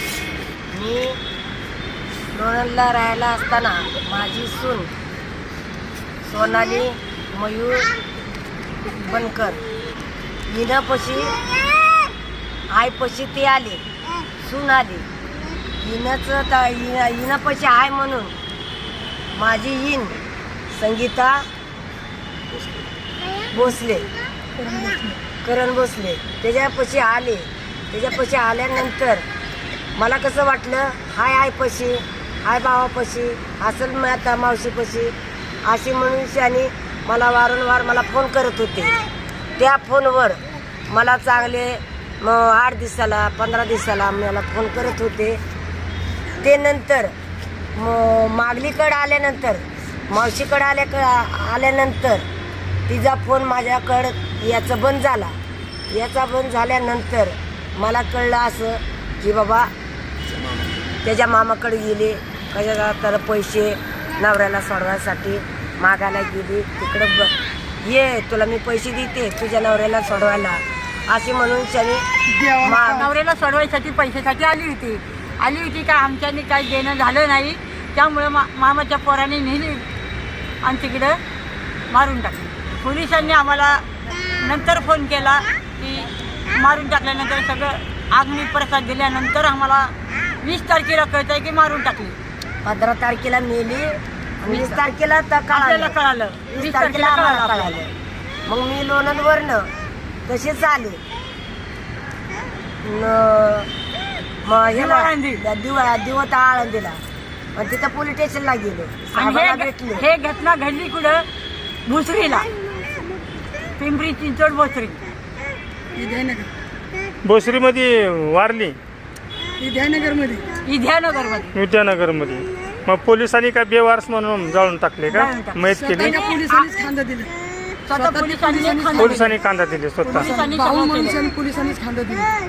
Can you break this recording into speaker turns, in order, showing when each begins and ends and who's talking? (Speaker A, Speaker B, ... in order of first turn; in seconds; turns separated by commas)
Speaker A: 0.7-1.2, Speaker A: 2.3-4.9, Speaker A: 6.3-7.9, Speaker A: 9.0-9.6, Speaker A: 10.5-11.3, Speaker A: 12.7-13.8, Speaker A: 14.4-15.1, Speaker A: 15.8-18.3, Speaker A: 19.3-20.2, Speaker A: 20.8-21.5, Speaker A: 23.5-24.1, Speaker B: 24.6-25.2, Speaker A: 25.4-29.2, Speaker A: 30.0-35.1, Speaker A: 35.6-39.0, Speaker A: 39.6-40.4, Speaker A: 40.9-45.4, Speaker A: 46.4-47.1, Speaker A: 47.8-52.2, Speaker A: 52.9-55.4, Speaker A: 55.9-59.7, Speaker A: 61.0-72.0, Speaker B: 72.3-73.1, Speaker A: 72.6-73.1, Speaker C: 73.0-79.8, Speaker C: 80.6-81.2, Speaker C: 81.9-83.8, Speaker C: 84.4-92.2, Speaker A: 92.7-96.0, Speaker C: 94.5-94.8, Speaker C: 95.5-97.8, Speaker A: 96.5-97.9, Speaker A: 98.5-99.7, Speaker A: 100.3-101.0, Speaker A: 102.8-103.7, Speaker A: 104.5-107.0, Speaker C: 104.7-105.4, Speaker A: 107.5-110.0, Speaker C: 109.2-111.3, Speaker C: 111.9-112.5, Speaker C: 113.8-115.0, Speaker B: 116.0-116.5, Speaker D: 117.2-118.8, Speaker B: 119.6-120.5, Speaker C: 120.7-121.5, Speaker D: 121.5-126.1, Speaker C: 125.1-126.7, Speaker B: 125.7-127.3, Speaker C: 127.9-129.3, Speaker B: 127.9-129.3, Speaker D: 128.9-130.3, Speaker C: 130.0-131.2, Speaker B: 130.0-132.3